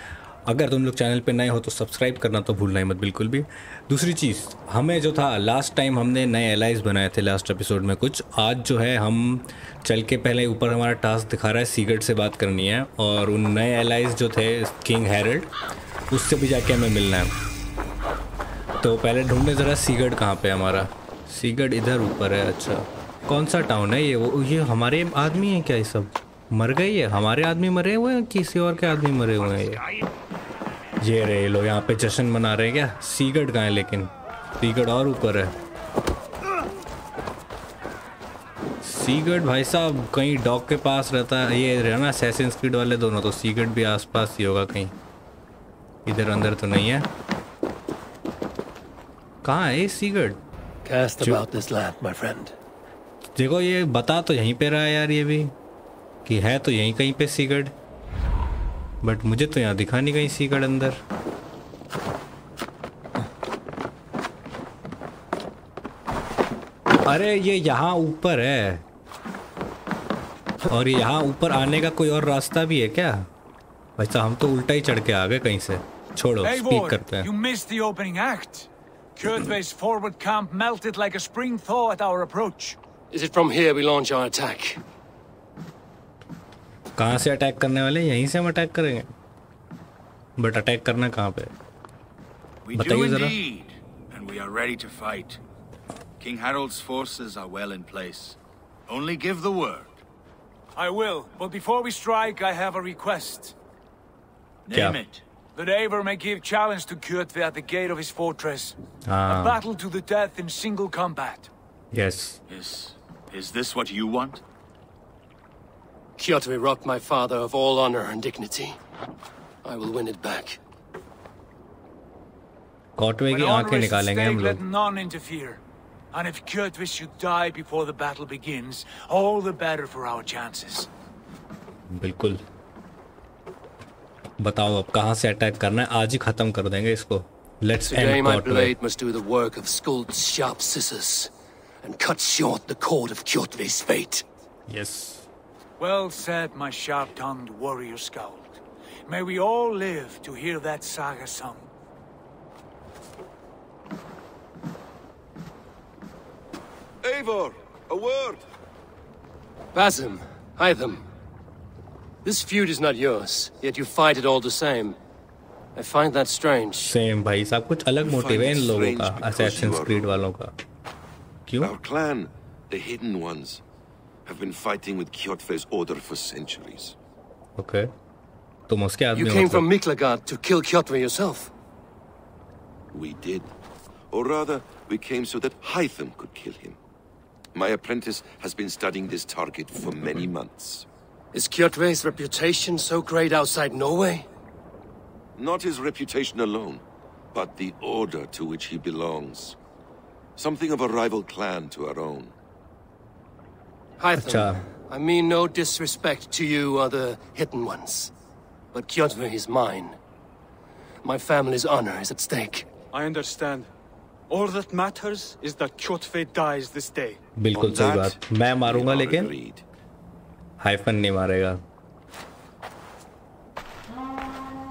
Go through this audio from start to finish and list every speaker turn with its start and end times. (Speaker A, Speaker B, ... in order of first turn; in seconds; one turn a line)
Speaker A: 0.5-15.5
Speaker A: 16.1-17.3
Speaker A: 18.8-29.8
Speaker A: 31.0-35.5
Speaker A: 38.8-44.9
Speaker A: 46.1-47.1
Speaker A: 49.4-50.4
Speaker B: 50.9-52.5
Speaker A: 51.2-51.5
Speaker A: 53.4-55.5
Speaker A: 56.2-57.7
Speaker A: 59.0-61.0
Speaker A: 67.1-68.8
Speaker A: 70.6-73.3
Speaker A: 74.0-77.3
Speaker C: 76.4-82.8
Speaker B: 83.1-84.8
Speaker A: 87.0-89.1
Speaker A: 90.4-91.5
Speaker D: 92.7-95.4
Speaker A: 92.7-93.4
Speaker D: 96.2-100.0
Speaker C: 100.8-103.5
Speaker D: 104.7-105.2
Speaker A: 104.7-105.0
Speaker C: 105.5-108.8
Speaker A: 109.1-109.6
Speaker C: 109.3-111.5
Speaker A: 111.9-112.4
Speaker D: 112.5-114.4
Speaker B: 116.2-118.8
Speaker B: 119.6-120.6
Speaker A: 123.0-124.6
Speaker C: 123.3-125.6
Speaker C: 126.1-130.9
Speaker A: 131.9-132.4
Speaker A: 134.4-138.7
Speaker B: 137.7-141.3
Speaker B: 141.8-144.2
Speaker A: 144.7-145.3
Speaker C: 145.8-151.7
Speaker E: 157.0-158.4
Speaker B: 159.7-161.1
Speaker B: 162.2-165.0
Speaker B: 165.8-166.9
Speaker A: 166.8-170.5
Speaker E: 168.0-170.1
Speaker A: 171.5-171.7
Speaker E: 171.6-173.6
Speaker E: 174.3-177.0
Speaker A: 177.6-177.9
Speaker A: 178.7-179.7
Speaker B: 179.1-181.5
Speaker E: 182.9-183.5
Speaker E: 184.1-186.8
Speaker E: 187.6-190.9
Speaker B: 191.3-194.3
Speaker E: 195.4-196.8
Speaker E: 197.3-199.6
Speaker E: 200.4-202.3
Speaker B: 204.0-208.1
Speaker A: 204.2-204.6
Speaker B: 208.7-210.0
Speaker B: 211.0-212.7
Speaker F: 212.9-213.7
Speaker F: 214.3-217.2
Speaker A: 217.4-219.3
Speaker E: 217.5-219.6
Speaker A: 220.6-221.6